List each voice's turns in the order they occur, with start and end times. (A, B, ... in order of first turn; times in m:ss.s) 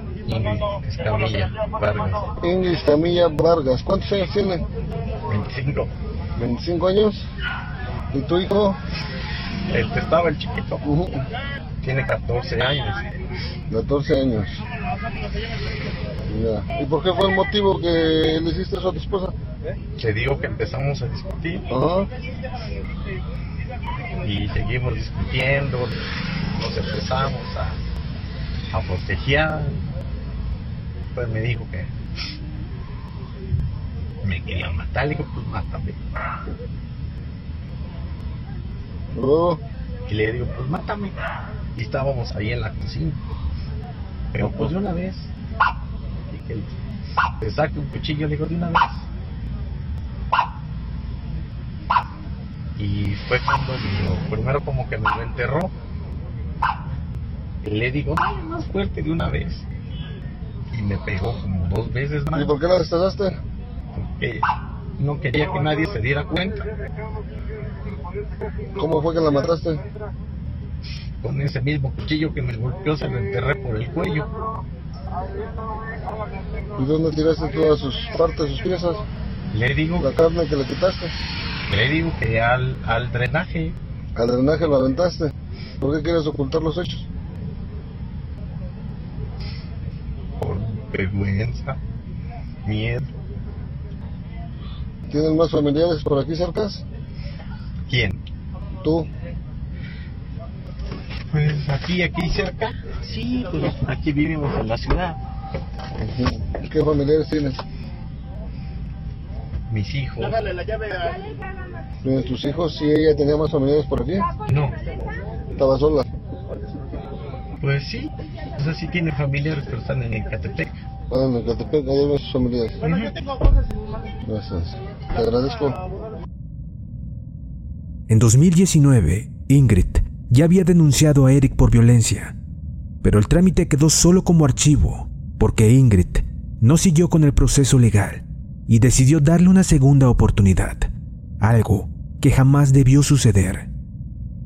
0:00.2-0:02.3 A
0:02.4-0:04.6 B
0:05.3-0:05.9 A
0:06.4-0:07.3 B
0:08.1-0:08.8 B
0:09.7-0:10.8 A
0:10.8-0:11.2 B
0:11.8-0:13.2 A
0:13.7-0:14.6 B
0:16.3-0:19.3 B
0:20.0-0:21.7 A
0:21.7-0:22.1 B
0:24.2-0:26.0 A
0:26.5-0:27.8 A
0:28.7-0:29.8 A
0:31.1-0:31.9 A
0:34.2-0:36.0 A
0:39.1-0:39.6 B
0:40.1-0:41.1 A
0:41.7-0:43.2 A
0:44.3-0:45.3 A
0:46.3-0:46.7 A
0:47.4-0:49.1 A
0:52.8-0:55.7 A
0:57.6-0:59.6 A
1:00.7-1:02.6 A
1:02.3-1:03.4 B
1:03.9-1:04.4 A
1:05.0-1:06.7 A
1:08.8-1:09.8 B
1:11.2-1:14.3 A
1:16.8-1:19.0 B
1:19.5-1:20.2 A
1:20.0-1:21.2 B
1:21.7-1:23.8 A
1:24.2-1:27.1 B
1:30.4-1:31.8 A
1:32.6-1:33.1 A
1:35.1-1:36.8 B
1:37.9-1:38.2 A
1:38.8-1:39.1 B
1:41.3-1:45.2 A
1:46.0-1:47.6 B
1:49.7-1:50.4 A
1:52.0-1:54.3 B
1:54.5-1:54.7 A
1:55.6-1:56.0 B
1:57.6-2:00.8 A
2:01.1-2:02.8 B
2:02.8-2:03.2 A
2:04.2-2:05.8 B
2:08.1-2:12.4 C
2:13.0-2:23.7 C